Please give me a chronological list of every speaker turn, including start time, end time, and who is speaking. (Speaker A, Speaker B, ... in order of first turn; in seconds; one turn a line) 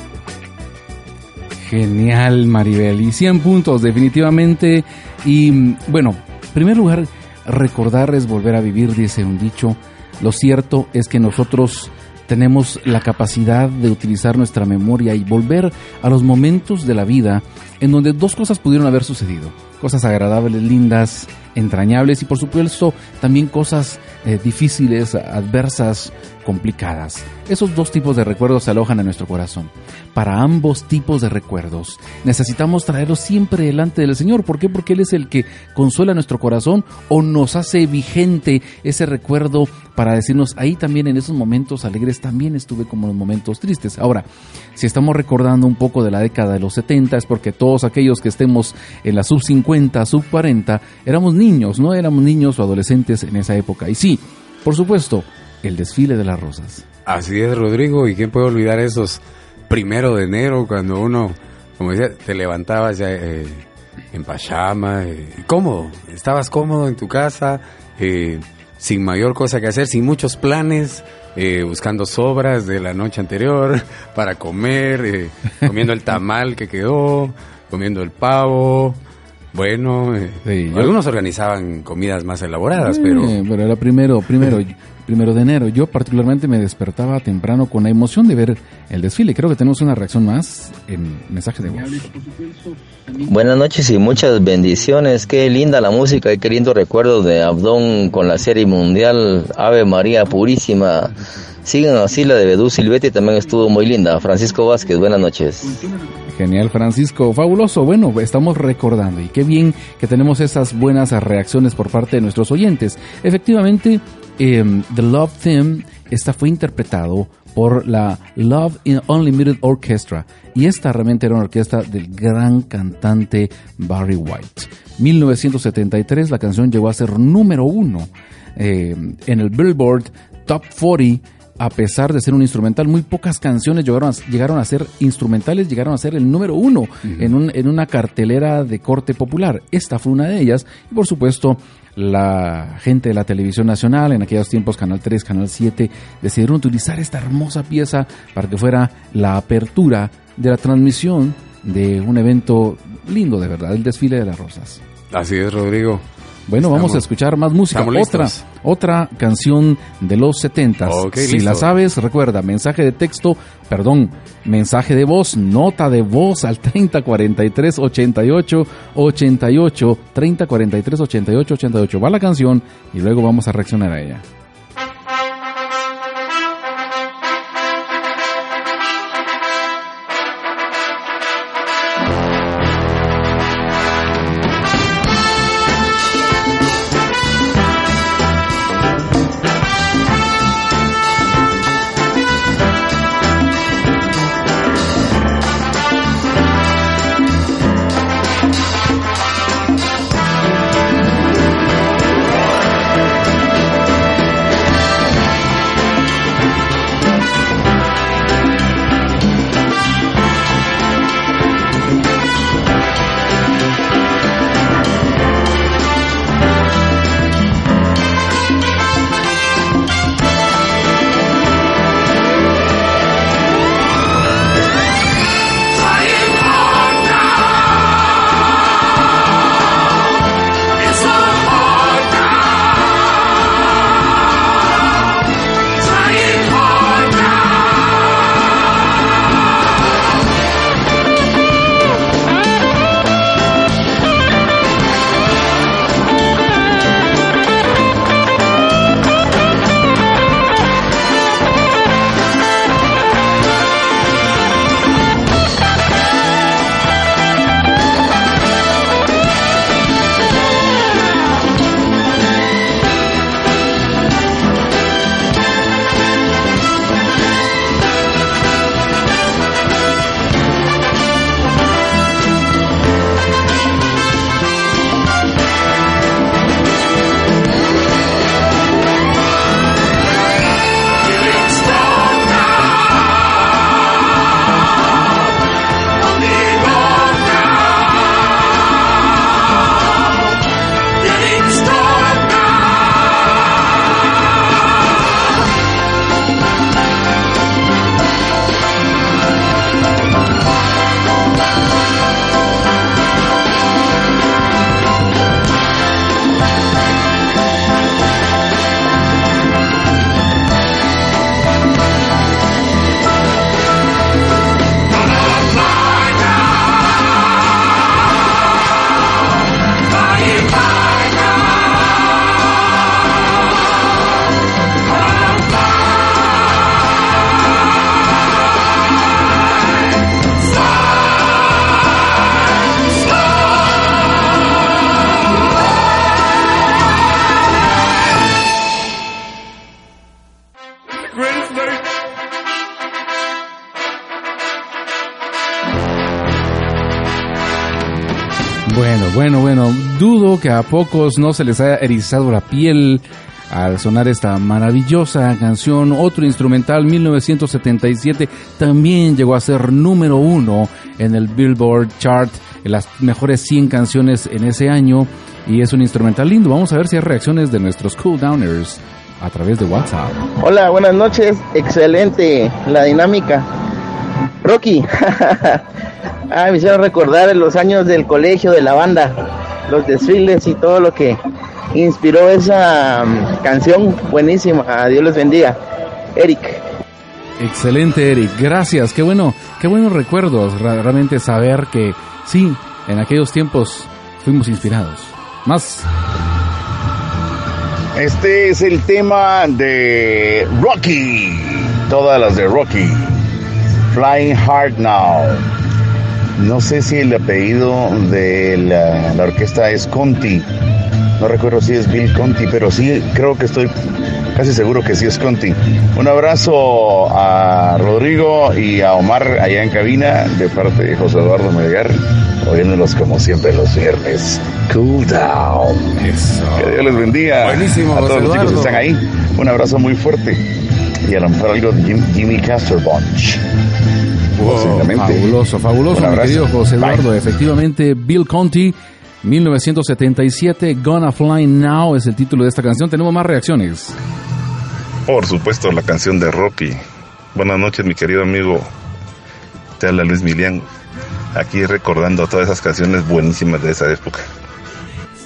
Speaker A: 1.6-56.8
Speaker B: 57.0-79.0
Speaker B: 79.5-83.4
Speaker A: 80.4-80.9
Speaker A: 82.8-92.3
Speaker C: 93.2-101.1
Speaker C: 101.6-105.8
Speaker A: 106.3-154.8
Speaker B: 155.1-156.0
Speaker A: 156.5-174.2
Speaker B: 156.6-157.0
Speaker B: 157.7-158.4
Speaker B: 160.8-161.7
Speaker A: 348.6-370.2
Speaker D: 370.4-373.5
Speaker D: 374.4-375.6
Speaker D: 376.3-381.2
Speaker D: 381.7-385.6
Speaker D: 386.1-386.6
Speaker A: 387.4-395.9
Speaker E: 397.9-403.2
Speaker E: 403.9-405.4
Speaker E: 406.4-410.4
Speaker E: 411.2-413.7
Speaker E: 414.3-426.0
Speaker A: 426.0-426.8
Speaker E: 426.6-430.4
Speaker B: 427.4-428.9
Speaker E: 431.0-433.4
Speaker B: 434.4-434.9
Speaker E: 434.4-435.2
Speaker A: 434.9-443.9
Speaker E: 435.9-437.1
Speaker F: 445.1-446.8
Speaker F: 447.3-448.7
Speaker F: 449.8-450.6
Speaker F: 451.3-454.3